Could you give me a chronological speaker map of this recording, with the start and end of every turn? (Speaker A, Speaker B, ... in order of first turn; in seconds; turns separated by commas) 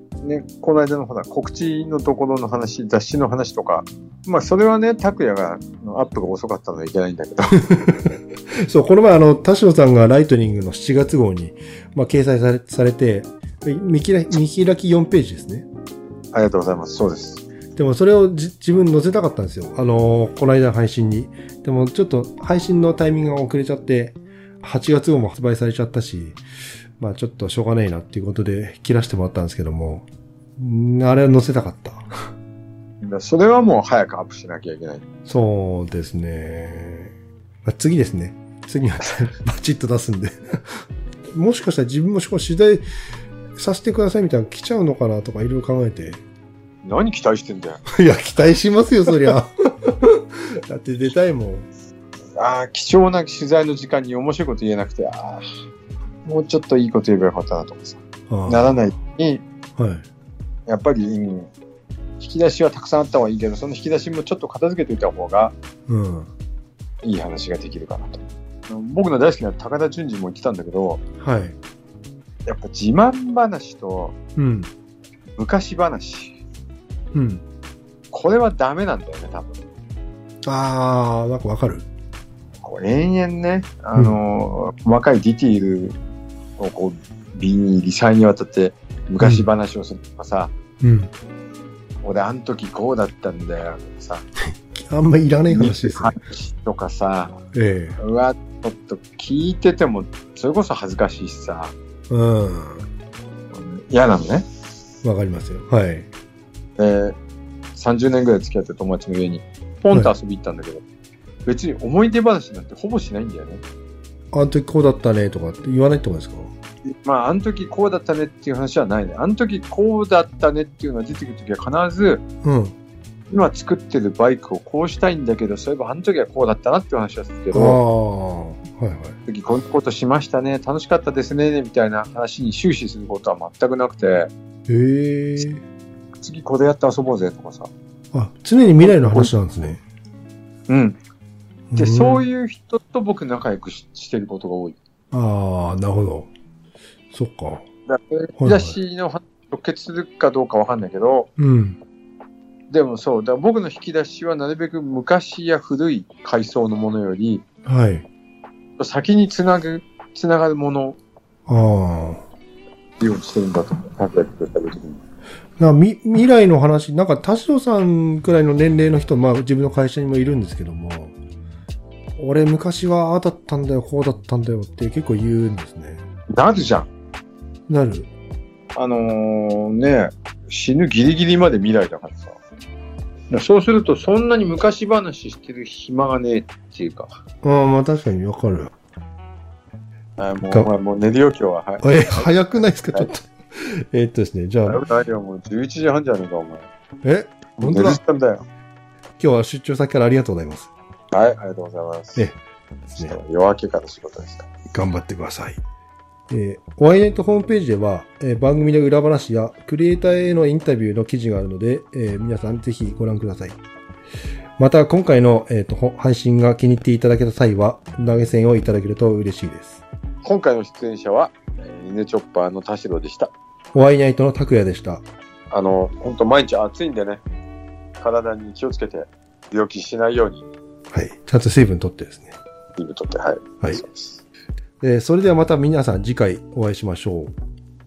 Speaker A: 0.2-7.6, Speaker B: 7.7-15.7, Speaker A: 16.3-17.4, Speaker B: 17.8-26.4, Speaker B: 27.0-30.1, Speaker B: 30.6-32.1, Speaker A: 33.0-35.0, Speaker B: 35.2-37.1, Speaker B: 37.6-40.8, Speaker B: 41.3-42.9, Speaker B: 43.5-46.2, Speaker A: 46.8-47.8, Speaker B: 47.9-51.7, Speaker A: 52.4-55.5, Speaker A: 56.2-59.4, Speaker B: 58.3-58.7, Speaker B: 59.8-60.0, Speaker A: 60.7-61.5, Speaker A: 62.2-65.5, Speaker B: 65.9-66.3, Speaker A: 67.0-71.0, Speaker B: 71.2-71.5, Speaker A: 72.5-74.1, Speaker B: 74.3-74.7, Speaker A: 75.4-76.4, Speaker B: 77.1-77.4, Speaker A: 78.1-79.6, Speaker B: 80.5-81.8, Speaker A: 82.6-86.0, Speaker A: 86.6-90.5, Speaker B: 89.2-89.5, Speaker B: 90.8-91.1, Speaker A: 92.0-94.2, Speaker B: 94.5-96.2, Speaker A: 95.5-97.4, Speaker B: 97.5-98.0, Speaker A: 98.0-101.7, Speaker B: 102.1-102.8, Speaker A: 103.5-104.5, Speaker B: 105.0-106.1, Speaker A: 106.8-107.2, Speaker A: 107.7-110.8, Speaker A: 111.5-113.6, Speaker B: 114.3-116.5, Speaker A: 116.9-122.2, Speaker B: 122.4-122.8, Speaker A: 123.3-127.8, Speaker B: 127.5-129.2, Speaker A: 129.2-134.3, Speaker B: 134.7-135.6, Speaker A: 136.2-137.7, Speaker B: 138.1-139.8, Speaker A: 138.8-139.3, Speaker A: 140.7-141.0, Speaker B: 141.7-142.2, Speaker A: 141.8-144.8, Speaker B: 145.1-146.3, Speaker B: 147.1-147.7, Speaker A: 147.9-151.3, Speaker B: 148.4-148.8, Speaker B: 151.4-151.8, Speaker A: 152.7-157.4, Speaker B: 157.7-158.1, Speaker A: 158.8-161.0, Speaker B: 161.5-162.2, Speaker A: 163.0-165.0, Speaker B: 165.6-171.2, Speaker B: 172.2-176.0, Speaker A: 176.3-176.9, Speaker B: 177.7-178.1, Speaker A: 178.8-182.4, Speaker A: 183.3-187.1, Speaker B: 187.4-188.7, Speaker A: 190.2-193.1, Speaker B: 190.4-190.7, Speaker B: 191.8-194.8, Speaker A: 194.7-196.7, Speaker B: 197.0-198.0, Speaker A: 197.6-198.4, Speaker B: 199.2-200.7, Speaker A: 201.1-202.3, Speaker A: 202.9-204.5, Speaker B: 204.7-205.6, Speaker B: 206.3-213.6, Speaker B: 214.6-219.8, Speaker A: 220.2-223.3, Speaker B: 223.7-225.0, Speaker A: 225.5-227.2, Speaker A: 228.0-230.5, Speaker B: 230.9-232.3, Speaker A: 232.8-234.2, Speaker B: 234.8-237.3